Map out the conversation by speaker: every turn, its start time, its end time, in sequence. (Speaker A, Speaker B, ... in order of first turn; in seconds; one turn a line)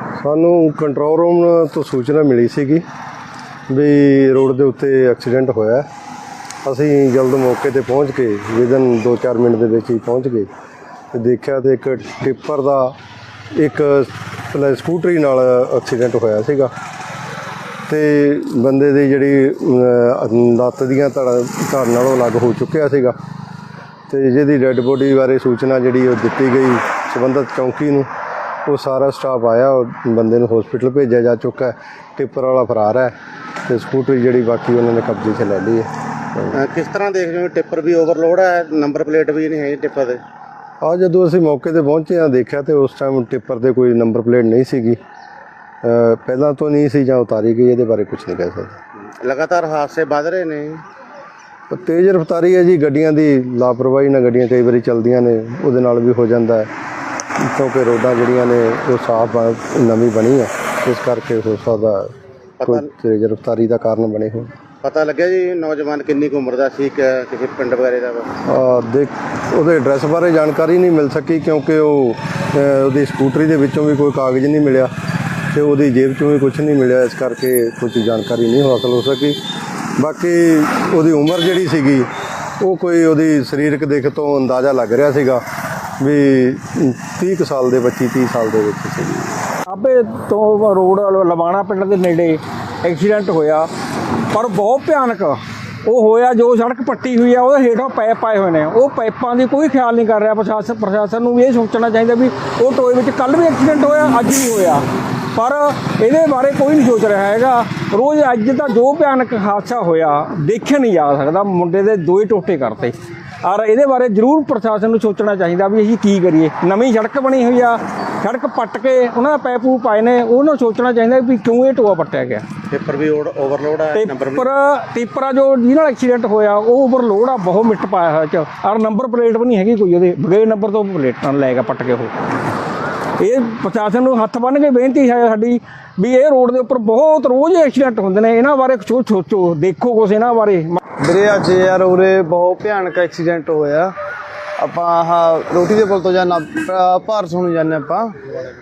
Speaker A: 0.2-2.8
Speaker A: 3.7-5.8
Speaker A: 6.6-10.5
Speaker A: 11.1-12.9
Speaker A: 13.5-16.7
Speaker A: 17.9-23.1
Speaker A: 24.1-28.1
Speaker A: 28.6-36.5
Speaker B: 36.5-40.2
Speaker A: 40.8-45.0
Speaker A: 45.8-48.8
Speaker B: 49.2-50.8
Speaker A: 51.7-56.7
Speaker A: 57.4-64.5
Speaker B: 62.6-62.9
Speaker B: 64.8-68.3
Speaker A: 68.5-74.9
Speaker A: 75.5-79.4
Speaker A: 80.0-82.1
Speaker A: 82.6-85.4
Speaker A: 86.0-89.4
Speaker C: 89.7-93.7
Speaker C: 94.3-122.4
Speaker B: 122.7-124.5
Speaker C: 123.9-132.1
Speaker C: 133.2-140.8
Speaker D: 141.0-143.9
Speaker D: 144.6-148.1